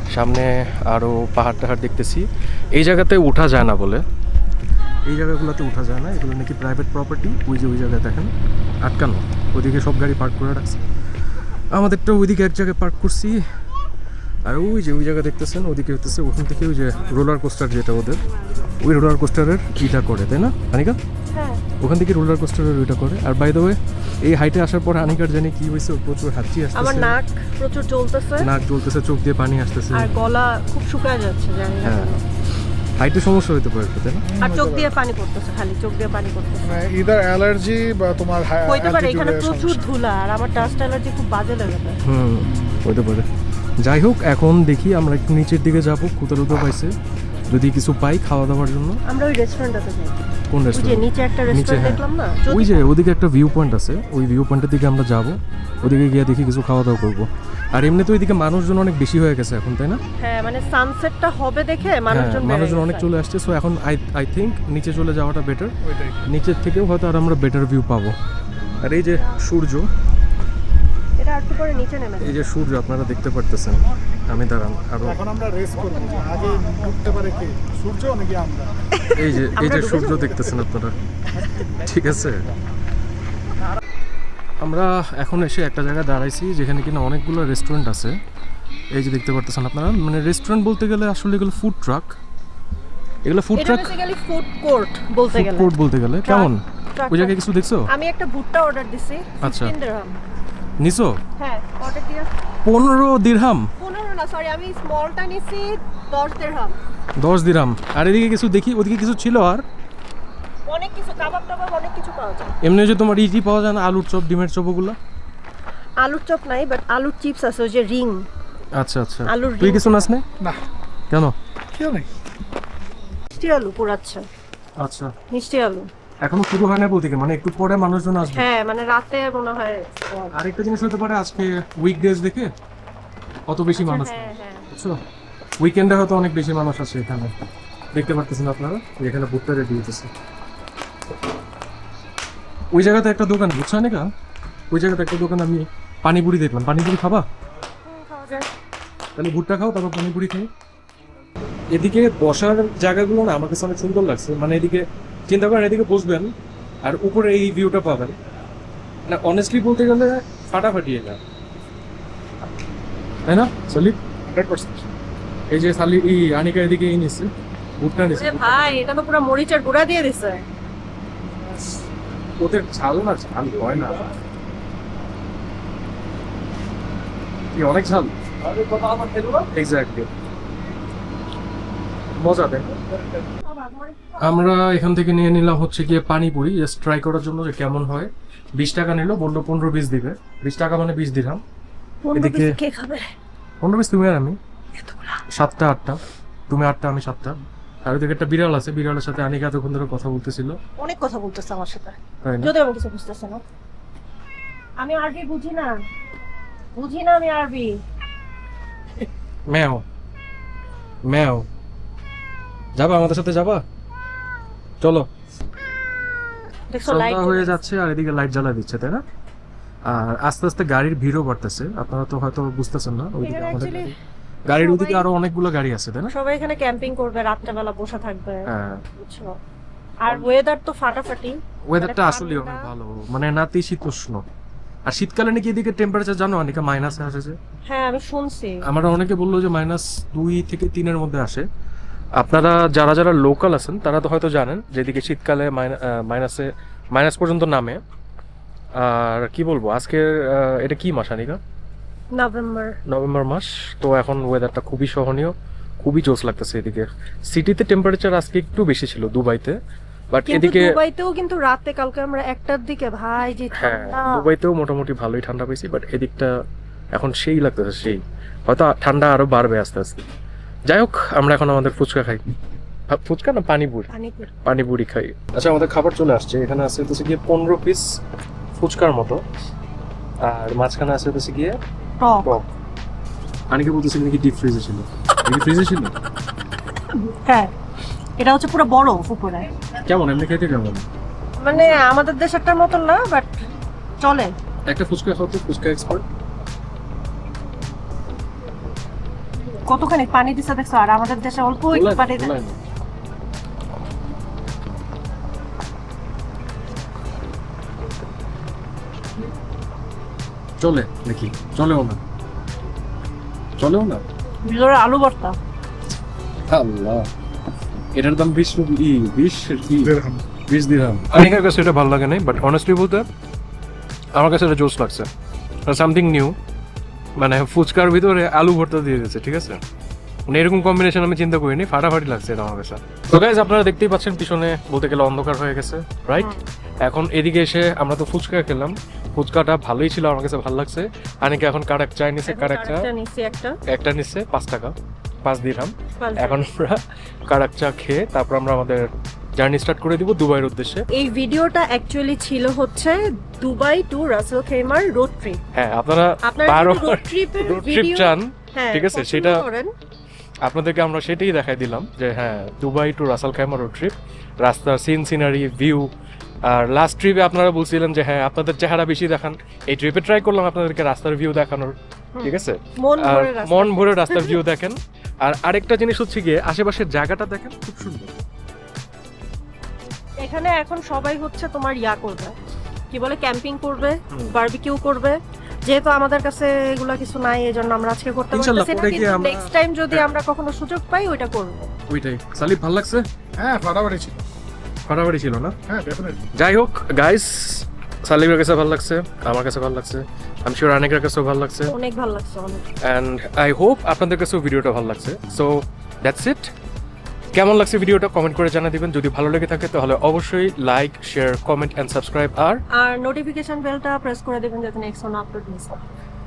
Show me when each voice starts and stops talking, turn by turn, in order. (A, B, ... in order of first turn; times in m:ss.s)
0:00.1-0:04.0 A
0:05.0-0:08.3 A
0:08.8-0:10.8 A
0:11.7-0:13.4 A
0:14.4-0:18.2 A
0:18.8-0:21.0 A
0:21.3-0:21.6 B
0:21.8-0:27.1 A
0:26.8-0:28.5 B
0:28.4-0:30.1 A
0:29.9-0:32.2 B
0:31.8-0:32.2 A
0:33.0-0:34.2 A
0:34.2-0:35.0 C
0:34.4-0:36.7 B
0:36.6-0:39.9 C
0:38.6-0:42.0 B
0:42.0-0:43.2 A
0:42.4-0:42.8 C
0:43.8-0:46.9 A
0:47.5-0:49.0 A
0:49.1-0:52.9 B
0:50.5-1:00.0 A
1:00.2-1:03.1 B
1:02.1-1:05.7 A
1:05.8-1:06.2 C
1:06.2-1:08.1 A
1:08.8-1:09.9 A
1:11.2-1:12.4 B
1:12.2-1:15.2 A
1:15.0-1:18.8 C
1:19.0-1:20.5 B
1:19.2-1:21.0 A
1:21.6-1:22.4 A
1:24.6-1:28.1 A
1:28.9-1:32.2 A
1:33.2-1:33.9 A
1:33.5-1:35.7 B
1:35.3-1:37.9 A
1:36.2-1:37.4 B
1:37.9-1:40.2 B
1:39.4-1:39.7 A
1:40.8-1:41.2 A
1:41.4-1:42.3 B
1:42.6-1:43.7 A
1:43.8-1:46.8 B
1:47.2-1:49.6 A
1:50.7-1:52.5 B
1:52.6-1:55.0 A
1:56.0-1:58.2 B
1:58.8-2:00.2 A
1:59.3-2:00.0 B
2:01.7-2:02.1 C
2:03.4-2:04.2 B
2:04.8-2:05.1 A
2:05.3-2:05.9 B
2:06.2-2:08.4 A
2:08.3-2:10.4 B
2:10.3-2:12.5 A
2:13.5-2:15.0 A
2:13.7-2:14.7 B
2:15.6-2:17.3 A
2:17.9-2:20.1 A
2:22.7-2:24.1 A
2:24.7-2:27.2 A
2:27.8-2:28.5 B
2:29.2-2:30.5 A
2:31.7-2:36.3 A
2:36.8-2:38.1 A
2:39.1-2:41.2 A
2:43.2-2:44.8 A
2:45.5-2:48.8 A
2:48.1-2:50.4 B
2:52.4-2:54.1 A
2:57.5-3:00.1 A
3:02.2-3:02.8 A
3:03.4-3:04.4 B
3:04.2-3:11.4 A
3:12.0-3:13.1 B
3:12.1-3:12.6 A
3:13.6-3:14.4 A
3:14.8-3:15.2 B
3:15.3-3:16.0 A
3:16.5-3:20.6 A
3:20.8-3:23.4 B
3:22.2-3:22.5 A
3:24.8-3:25.7 B
3:26.8-3:27.8 B
3:29.5-3:29.8 A
3:31.1-3:31.4 A
3:32.8-3:33.6 A
3:34.8-3:35.1 A
3:36.7-3:37.6 B
3:36.8-3:39.0 A
3:39.8-3:43.9 A
3:43.2-3:43.9 B
3:44.5-3:46.1 A
3:44.5-3:45.1 B
3:46.1-3:49.4 B
3:48.5-3:48.8 A
3:50.0-3:52.7 B
3:51.7-3:54.2 A
3:54.8-3:57.4 A
3:57.7-3:58.7 B
3:58.6-4:01.4 A
4:02.2-4:07.8 A
4:08.8-4:11.4 A
4:12.1-4:12.8 B
4:12.9-4:19.6 A
4:20.1-4:20.8 A
4:20.3-4:24.3 B
4:23.5-4:26.3 A
4:26.9-4:30.0 A
4:30.7-4:32.2 A
4:32.9-4:33.9 A
4:33.9-4:34.3 B
4:34.4-4:38.0 A
4:38.6-4:39.2 A
4:40.2-4:41.6 A
4:42.0-4:42.3 B
4:43.5-4:45.9 A
4:47.0-4:47.5 B
4:48.2-4:49.5 B
4:49.8-4:50.8 A
4:51.4-4:53.4 B
4:51.5-4:51.8 A
4:54.0-4:54.3 B
4:54.7-4:56.0 A
4:59.6-5:02.3 B
5:01.7-5:02.6 A
5:10.6-5:12.0 A
5:13.6-5:14.0 A
5:14.4-5:15.4 B
5:16.5-5:17.1 A
5:17.9-5:20.0 A
5:19.8-5:20.2 C
5:20.5-5:23.0 A
5:24.1-5:25.1 A
5:25.6-5:26.3 A
5:27.2-5:29.6 A
5:30.3-5:36.3 A
5:36.8-5:42.9 A
5:42.3-5:43.6 B
5:43.7-5:44.7 A
5:45.2-5:50.8 A
5:46.0-5:46.4 B
5:50.9-5:55.4 B
5:55.5-5:59.4 A
5:56.2-5:59.7 B
6:00.4-6:05.9 A
6:06.4-6:18.2 A
6:12.2-6:14.4 B
6:20.2-6:22.3 B
6:22.9-6:31.6 B
6:28.3-6:30.1 A
6:31.9-6:33.0 A
6:33.4-6:34.2 C
6:34.9-6:35.5 A
6:35.7-6:36.2 C
6:36.3-6:41.7 A
6:41.7-6:42.6 B
6:42.8-6:46.5 A
6:47.3-6:52.6 A
6:52.7-6:55.8 B